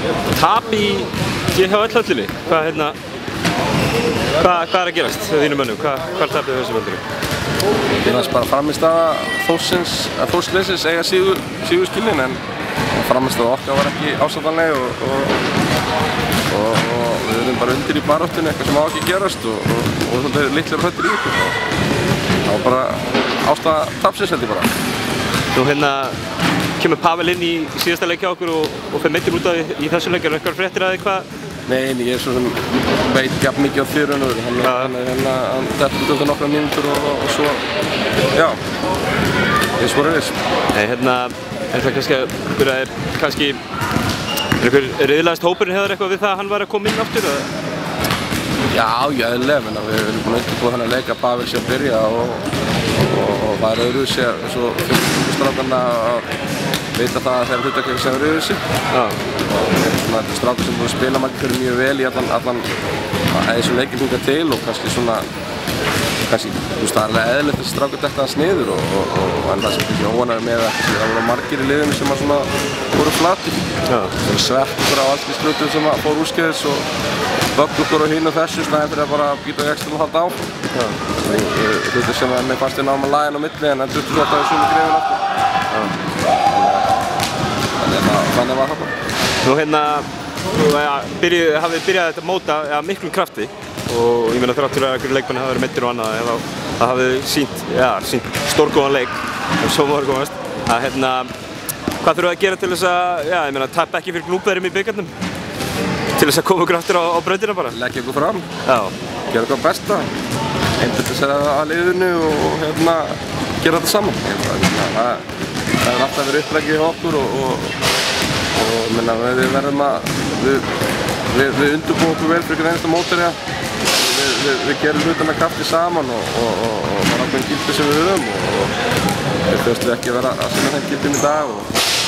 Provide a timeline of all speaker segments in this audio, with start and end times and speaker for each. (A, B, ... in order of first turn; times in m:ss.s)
0:00.3-0:03.0 A
0:04.4-0:07.0 A
0:08.0-0:12.4 B
0:12.9-0:15.4 B
0:16.5-0:21.6 B
0:22.4-0:24.7 B
0:25.5-0:26.2 A
0:26.8-0:31.2 A
0:31.7-0:37.6 B
0:34.6-0:34.9 A
0:39.8-0:40.4 B
0:40.7-0:43.6 A
0:44.6-0:47.5 A
0:48.7-0:56.3 B
0:57.0-0:58.6 B
0:58.9-0:59.2 A
0:59.6-1:02.7 B
1:03.3-1:05.2 B
1:06.2-1:13.6 B
1:13.9-1:14.2 A
1:14.2-1:16.8 B
1:17.5-1:20.4 B
1:21.2-1:25.2 B
1:26.4-1:26.9 B
1:27.8-1:28.9 B
1:29.4-1:41.3 A
1:42.0-1:45.1 A
1:46.2-1:47.8 A
1:47.7-1:48.4 B
1:48.6-1:48.9 A
1:49.3-1:50.1 B
1:50.8-1:55.2 B
1:55.8-1:57.8 B
1:58.6-2:00.7 B
2:01.3-2:08.8 B
2:09.5-2:11.7 B